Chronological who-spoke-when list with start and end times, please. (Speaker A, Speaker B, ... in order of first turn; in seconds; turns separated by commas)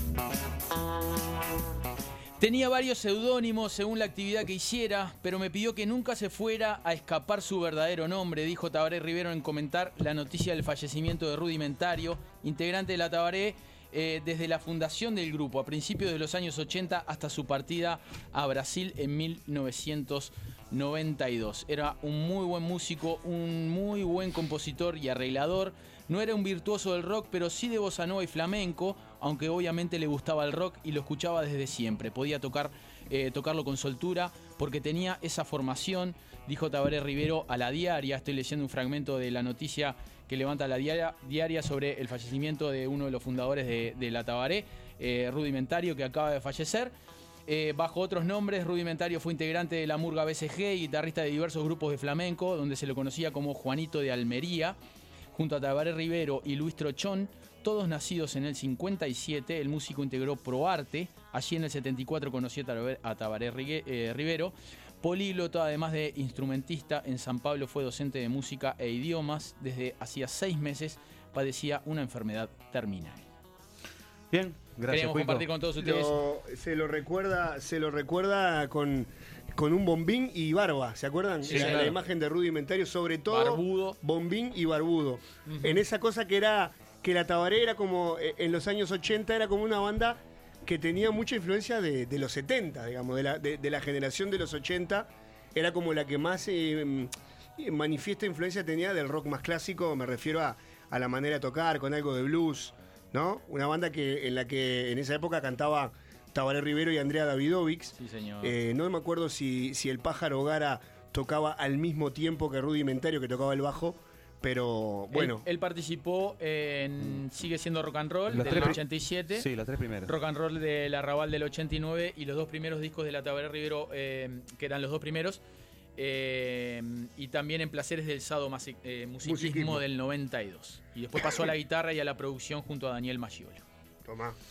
Speaker A: 2.4-46.9, Speaker A: 47.5-54.8, Speaker A: 55.3-73.3, Speaker B: 74.3-75.5, Speaker A: 74.9-76.1, Speaker C: 75.8-115.4, Speaker A: 81.4-81.9, Speaker B: 81.5-81.9, Speaker A: 83.3-84.0, Speaker A: 85.5-85.8, Speaker A: 108.0-108.5, Speaker A: 115.1-119.5, Speaker B: 118.3-120.1, Speaker C: 118.5-118.8, Speaker A: 120.0-125.4, Speaker A: 126.0-133.6, Speaker C: 129.2-129.8, Speaker C: 134.0-134.4